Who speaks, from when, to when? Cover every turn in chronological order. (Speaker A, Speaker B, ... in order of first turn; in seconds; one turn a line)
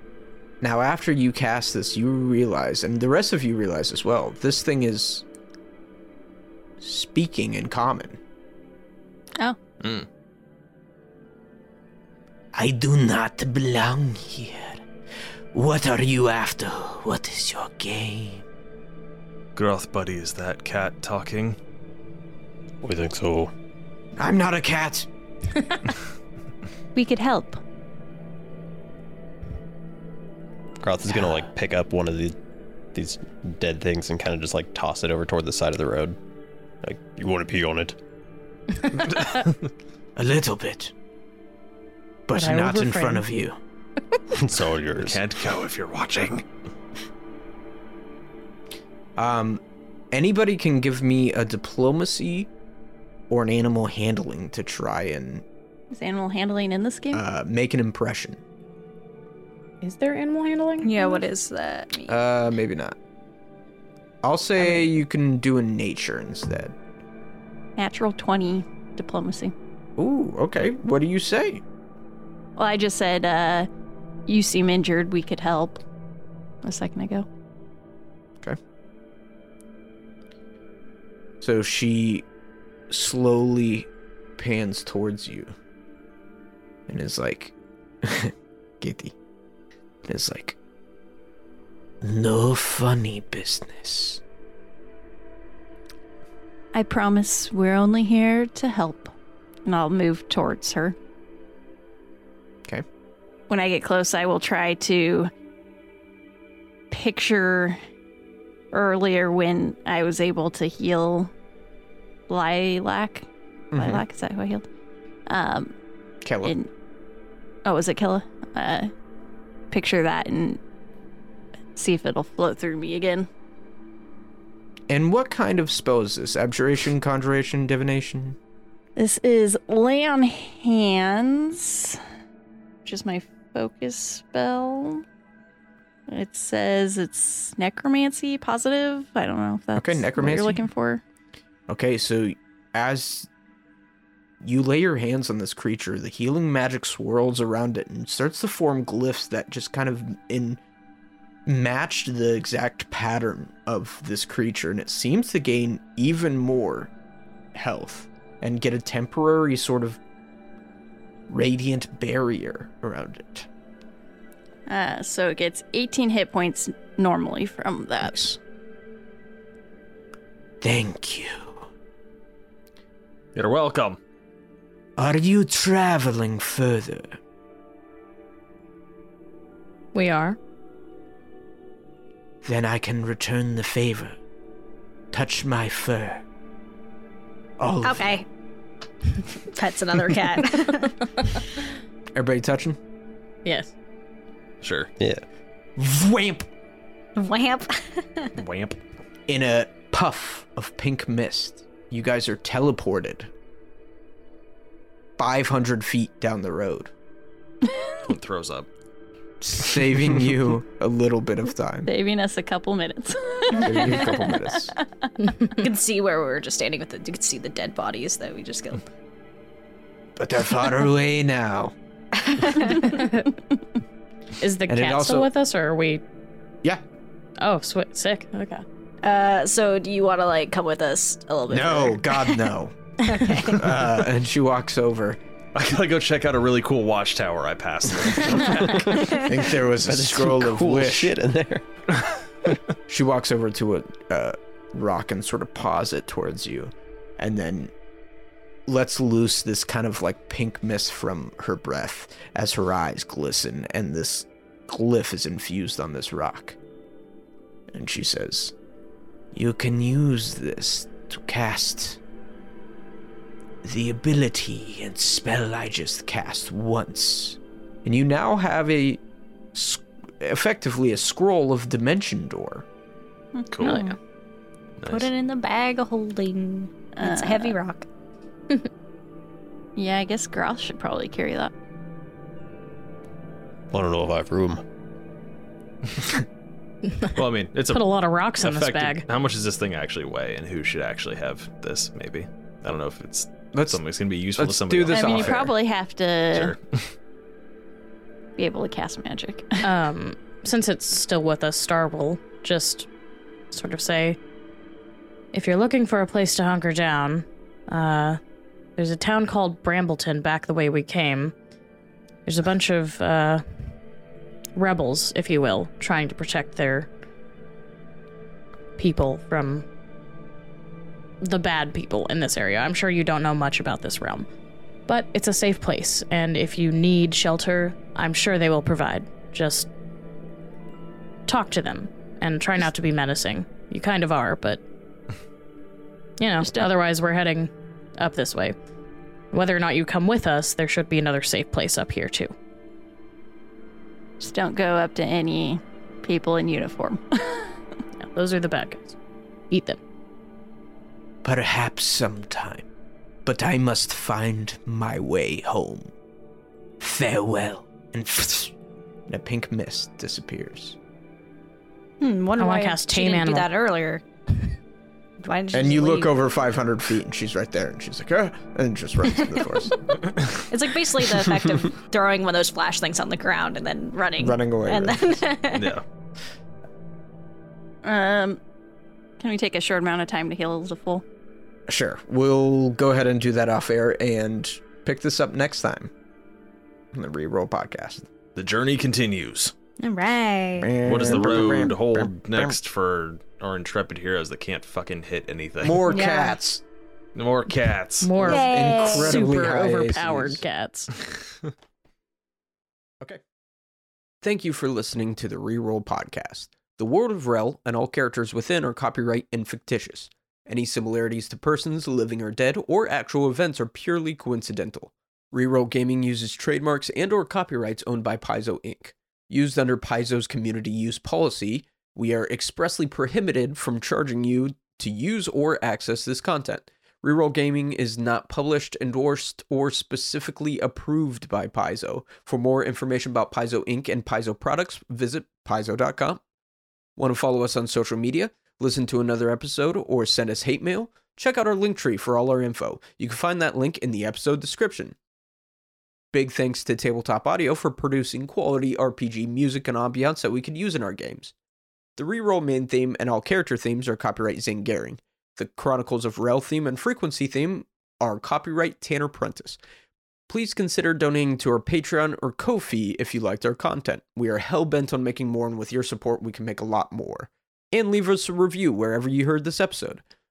Speaker A: 0.6-5.2
Speaker A: 6.8-8.2
Speaker B: 9.8-10.1
Speaker A: 12.5-14.8
Speaker A: 15.5-18.4
Speaker B: 19.6-21.6
Speaker C: 22.8-23.5
Speaker A: 24.2-25.1
Speaker D: 26.9-27.6
Speaker C: 30.8-32.4
Speaker C: 32.9-36.2
Speaker C: 36.8-38.0
Speaker A: 40.2-40.9
Speaker A: 42.3-43.6
Speaker E: 42.3-43.2
Speaker C: 44.3-45.2
Speaker B: 45.0-46.5
Speaker A: 49.2-49.6
Speaker A: 50.1-52.5
Speaker A: 53.3-55.4
Speaker D: 55.9-57.2
Speaker A: 57.1-58.4
Speaker E: 59.8-61.2
Speaker F: 60.8-61.9
Speaker D: 61.0-62.1
Speaker A: 62.1-63.0
Speaker A: 64.2-66.8
Speaker D: 67.8-69.5
Speaker A: 70.0-71.6
Speaker D: 72.6-73.7
Speaker D: 74.3-75.8
Speaker D: 76.6-77.3
Speaker A: 81.4-82.3
Speaker A: 82.9-85.5
Speaker A: 86.9-89.2
Speaker A: 90.1-90.6
Speaker A: 92.0-94.2
Speaker D: 96.7-99.1
Speaker D: 99.7-101.0
Speaker D: 103.5-105.3
Speaker D: 106.9-107.8
Speaker D: 108.7-111.3
Speaker D: 112.3-114.7
Speaker A: 113.7-114.0
Speaker D: 115.3-115.7
Speaker A: 116.2-116.5
Speaker D: 116.4-116.7
Speaker D: 117.7-118.9
Speaker D: 119.7-120.6
Speaker D: 121.8-123.3
Speaker A: 124.9-128.4
Speaker D: 129.0-132.0
Speaker D: 132.8-135.1
Speaker D: 136.1-141.0
Speaker A: 139.8-140.7
Speaker A: 141.7-143.3
Speaker A: 144.4-150.6
Speaker A: 151.5-156.9
Speaker A: 157.6-160.0
Speaker A: 161.3-163.5
Speaker D: 164.7-168.3
Speaker A: 168.0-168.4
Speaker A: 170.6-171.7
Speaker B: 173.3-174.0
Speaker A: 175.0-177.2
Speaker E: 179.9-180.4
Speaker A: 182.4-184.2
Speaker A: 185.1-186.2
Speaker A: 187.6-188.1
Speaker F: 187.8-188.3
Speaker F: 189.4-190.9
Speaker A: 192.2-192.8
Speaker E: 193.4-193.7
Speaker B: 194.6-194.9
Speaker A: 195.8-196.5
Speaker F: 197.2-198.3
Speaker B: 198.4-198.8
Speaker A: 199.3-203.3
Speaker A: 205.2-206.9
Speaker B: 208.0-208.7
Speaker A: 209.4-211.9
Speaker D: 211.9-215.5
Speaker A: 213.6-214.7
Speaker F: 215.6-218.8
Speaker A: 220.2-221.7
Speaker F: 222.3-222.8
Speaker E: 222.9-223.2
Speaker E: 224.4-226.0
Speaker A: 224.7-225.3
Speaker E: 227.4-228.6
Speaker F: 229.0-232.0
Speaker A: 231.5-232.8
Speaker F: 233.1-233.6
Speaker A: 233.4-235.2
Speaker B: 235.6-239.3
Speaker A: 239.1-241.1
Speaker C: 239.7-241.7
Speaker A: 242.9-247.7
Speaker A: 248.7-256.6
Speaker A: 257.7-258.5
Speaker A: 259.3-262.0
Speaker A: 263.6-269.0
Speaker A: 269.5-272.7
Speaker D: 273.3-273.8
Speaker B: 273.5-274.0
Speaker E: 273.6-274.0
Speaker B: 274.8-275.1
Speaker F: 274.9-277.9
Speaker D: 276.9-277.6
Speaker D: 279.8-281.5
Speaker C: 283.7-284.6
Speaker E: 286.9-287.2
Speaker B: 287.1-295.5
Speaker E: 287.7-289.1
Speaker A: 293.5-293.8
Speaker A: 294.4-295.5
Speaker D: 294.9-296.6
Speaker B: 296.3-296.9
Speaker D: 298.4-299.7
Speaker E: 299.6-302.9
Speaker E: 303.5-304.2
Speaker E: 305.3-308.2
Speaker E: 308.8-311.3
Speaker E: 312.3-313.4
Speaker E: 314.6-316.9
Speaker E: 318.8-319.6
Speaker E: 321.2-324.3
Speaker E: 324.9-329.7
Speaker E: 331.3-334.6
Speaker E: 336.2-338.6
Speaker E: 339.3-342.3
Speaker D: 344.2-347.6
Speaker E: 348.0-349.0
Speaker E: 349.5-349.8
Speaker A: 351.2-352.7
Speaker A: 353.3-355.9
Speaker A: 356.8-358.5
Speaker A: 359.1-360.8
Speaker F: 362.0-364.0
Speaker E: 362.4-363.5
Speaker F: 365.2-366.1
Speaker A: 365.5-369.9
Speaker F: 370.5-375.8
Speaker A: 374.2-375.2
Speaker B: 375.5-375.8
Speaker D: 377.8-378.4
Speaker D: 379.2-381.0
Speaker A: 381.7-385.9
Speaker A: 386.9-388.1
Speaker B: 388.4-389.5
Speaker F: 389.8-390.7
Speaker A: 390.6-392.5
Speaker B: 390.8-395.9
Speaker A: 395.6-396.6
Speaker F: 395.9-396.4
Speaker B: 397.1-398.1
Speaker E: 398.0-400.9
Speaker A: 398.2-400.4
Speaker F: 398.2-399.3
Speaker A: 404.2-436.2
Speaker A: 437.0-445.0
Speaker A: 446.1-451.3
Speaker A: 452.0-459.6
Speaker A: 460.3-470.0